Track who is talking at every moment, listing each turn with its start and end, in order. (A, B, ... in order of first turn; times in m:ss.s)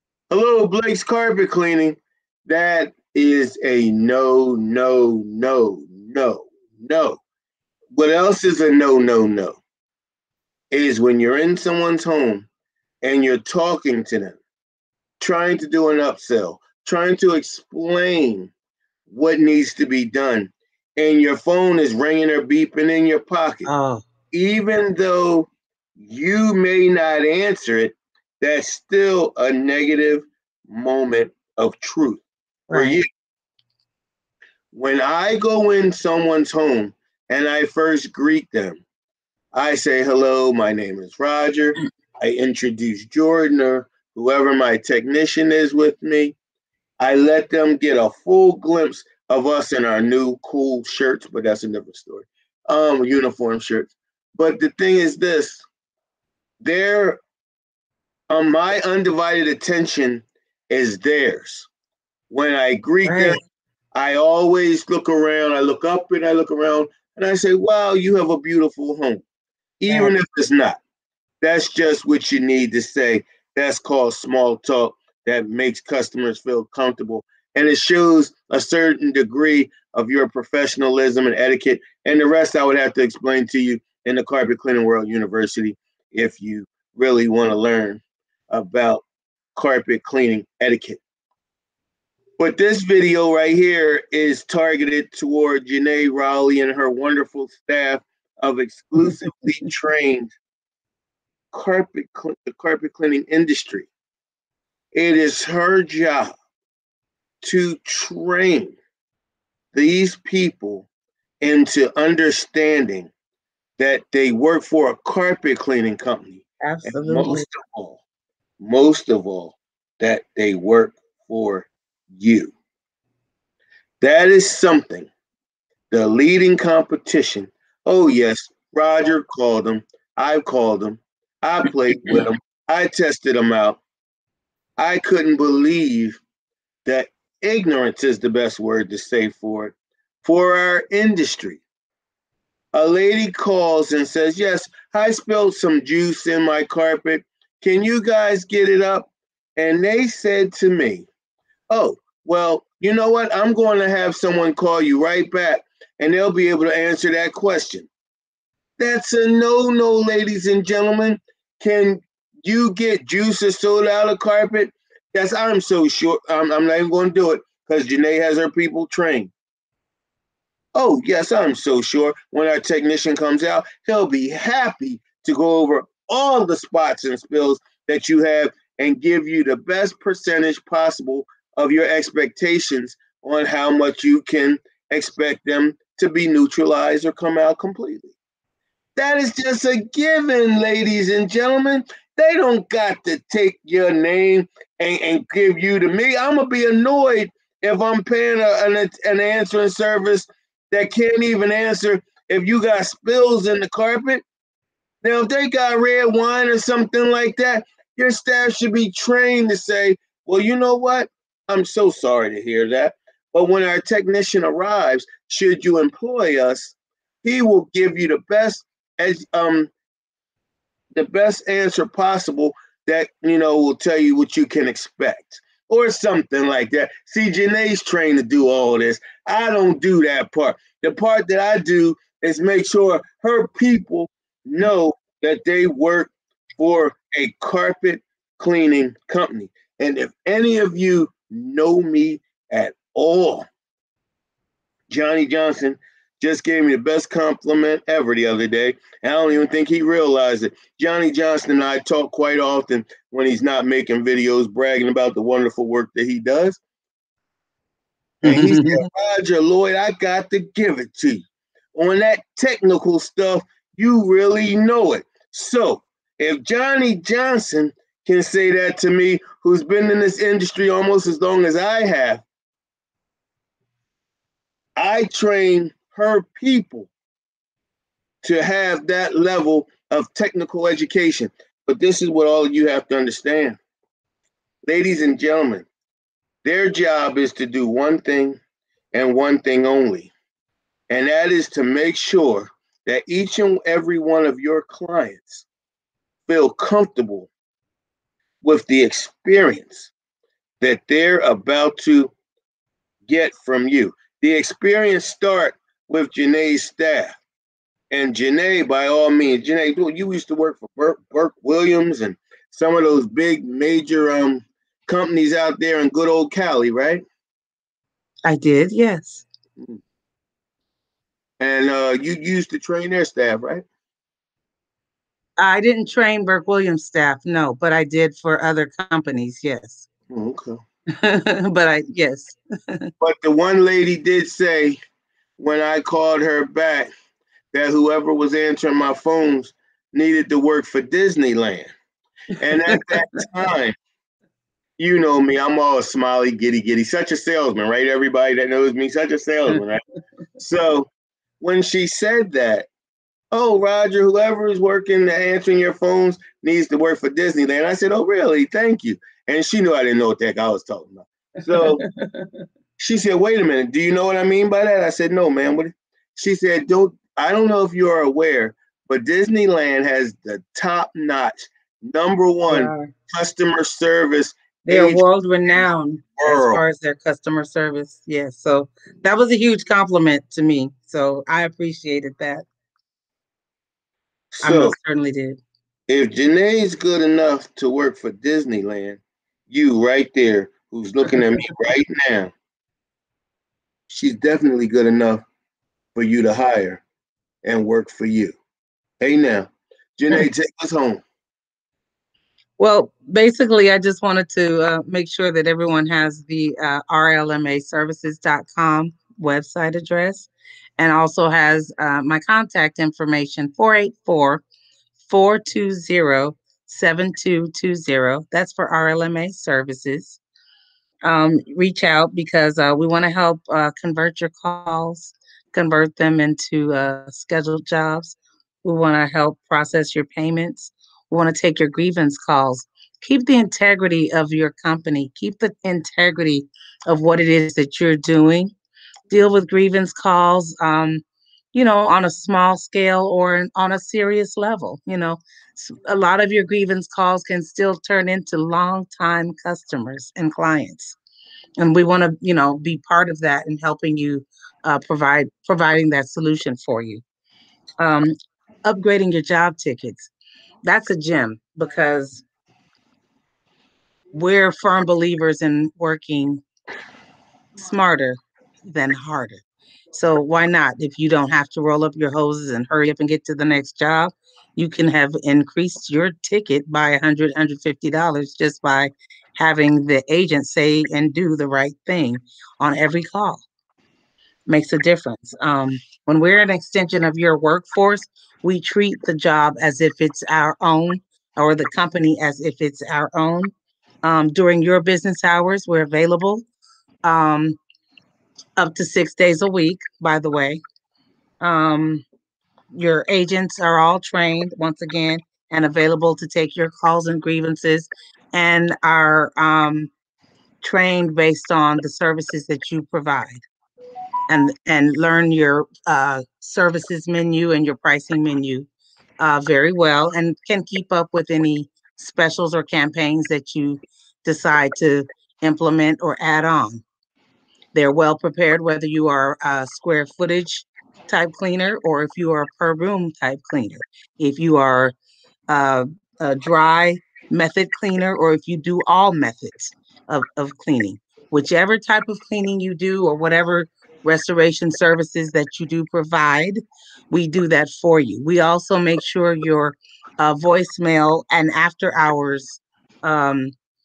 0:00.3-0:07.2 A
0:07.9-0:09.6 A
0:10.7-0:12.5 A
0:13.0-0:14.4 A
0:15.2-0:18.5 A
0:19.1-0:23.7 A
0:23.6-0:24.0 B
0:24.3-0:33.1 A
0:32.7-0:33.0 B
0:34.7-0:38.8 A
0:39.5-0:46.3 A
0:47.0-0:55.6 A
0:56.6-0:57.2 A
0:58.3-1:01.7 A
1:02.3-1:03.4 A
1:03.0-1:03.4 B
1:03.9-1:09.2 A
1:09.8-1:10.8 A
1:11.4-1:29.0 A
1:29.5-1:31.0 A
1:32.4-1:40.3 A
1:41.5-1:43.9 A
1:44.9-1:46.3 A
1:47.4-1:48.8 A
1:49.7-1:50.9 A
1:51.4-1:53.1 A
1:53.8-1:58.0 A
1:56.6-1:57.4 B
1:58.6-2:02.5 A
2:04.0-2:05.1 A
2:05.9-2:13.8 A
2:14.8-2:16.2 A
2:16.8-2:21.6 A
2:22.7-2:31.1 A
2:31.7-2:37.9 A
2:38.8-2:49.3 A
2:50.7-3:08.1 A
3:09.0-3:24.2 A
3:25.0-3:39.7 A
3:41.0-4:03.4 A
4:04.9-4:16.6 A
4:18.2-4:18.8 B
4:18.2-4:32.2 A
4:34.8-4:36.9 A
4:38.2-4:43.6 A
4:44.6-4:45.7 A
4:46.4-4:48.4 A
4:48.9-4:50.1 A
4:50.9-4:55.4 A
4:56.3-4:57.3 A
4:58.4-4:59.9 A
5:00.6-5:02.1 A
5:03.1-5:07.2 A
5:07.9-5:17.0 A
5:18.2-5:19.2 B
5:21.4-5:23.6 A
5:25.4-5:29.9 B
5:30.1-5:30.6 A
5:30.9-5:32.9 B
5:33.0-5:34.8 A
5:35.4-5:36.9 A
5:37.5-5:41.7 A
5:42.4-5:43.8 A
5:44.8-5:49.8 A
5:50.4-5:50.9 A
5:51.4-5:52.7 A
5:53.3-6:01.8 A
6:02.8-6:15.6 A
6:12.5-6:12.9 B
6:14.7-6:22.4 B
6:16.2-6:16.6 A
6:24.3-6:24.7 A
6:24.4-6:25.4 B
6:25.9-6:32.3 A
6:33.9-6:35.2 A
6:35.9-6:36.8 A
6:37.4-6:38.4 A
6:39.0-6:41.0 A
6:42.6-6:54.4 B
6:55.0-7:00.2 B
7:01.0-7:18.5 B
7:19.1-7:21.0 B
7:21.5-7:30.9 B
7:31.6-7:37.0 B
7:37.8-7:38.1 B
7:38.6-7:40.1 B
7:40.6-7:42.2 B
7:44.1-7:46.4 B
7:47.6-8:03.4 B
8:04.5-8:13.5 B
8:14.0-8:16.4 B
8:17.0-8:17.6 B
8:18.6-8:20.6 B
8:21.4-8:22.0 B
8:22.7-8:29.9 B
8:30.6-8:33.4 B
8:34.3-8:38.7 B
8:39.2-8:46.8 B
8:47.7-8:54.9 B
8:55.5-9:06.6 B
9:07.1-9:13.5 B